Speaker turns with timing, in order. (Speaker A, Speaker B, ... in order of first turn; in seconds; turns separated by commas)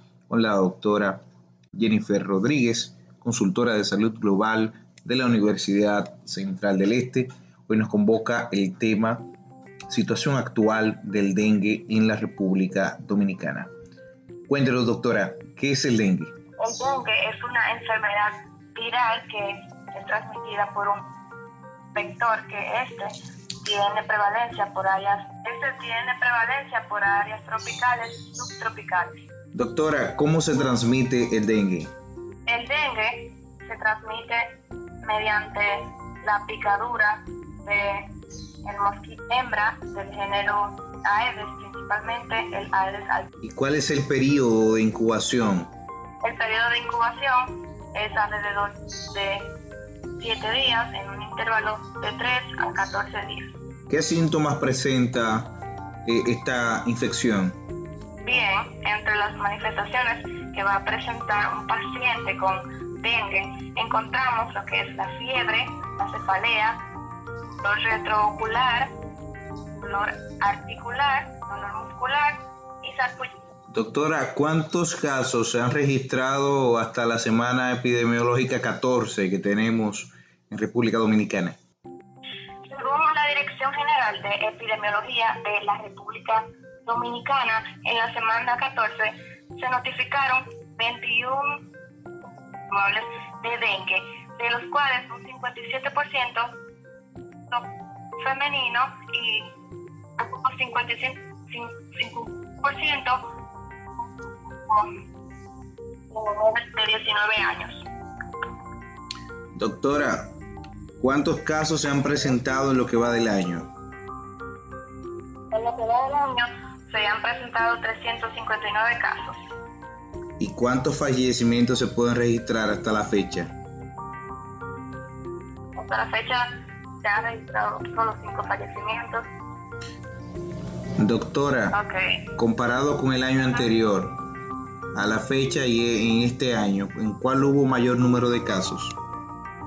Speaker A: 0.3-1.2, Speaker A: 1.7-9.3, Speaker A: 9.9-13.7, Speaker A: 14.5-16.3, Speaker B: 16.6-21.1, Speaker B: 21.9-29.2, Speaker A: 29.5-31.9, Speaker B: 32.5-38.1, Speaker B: 38.6-43.3, Speaker A: 43.4-45.7, Speaker B: 46.2-49.5, Speaker B: 50.2-53.5, Speaker A: 53.9-57.6, Speaker B: 58.2-66.8, Speaker B: 67.6-68.9, Speaker B: 69.8-73.4, Speaker A: 73.7-81.6, Speaker B: 82.7-91.7, Speaker B: 92.7-96.5, Speaker B: 97.5-99.6, Speaker B: 100.2-103.2, Speaker B: 104.6-104.9, Speaker B: 106.1-107.9, Speaker A: 109.5-110.3, Speaker A: 111.0-113.7, Speaker B: 115.5-119.4, Speaker A: 120.4-123.5, Speaker B: 125.7-126.5, Speaker B: 127.0-129.3, Speaker A: 131.0-131.8, Speaker B: 131.7-132.2, Speaker A: 132.4-134.2, Speaker A: 134.9-139.0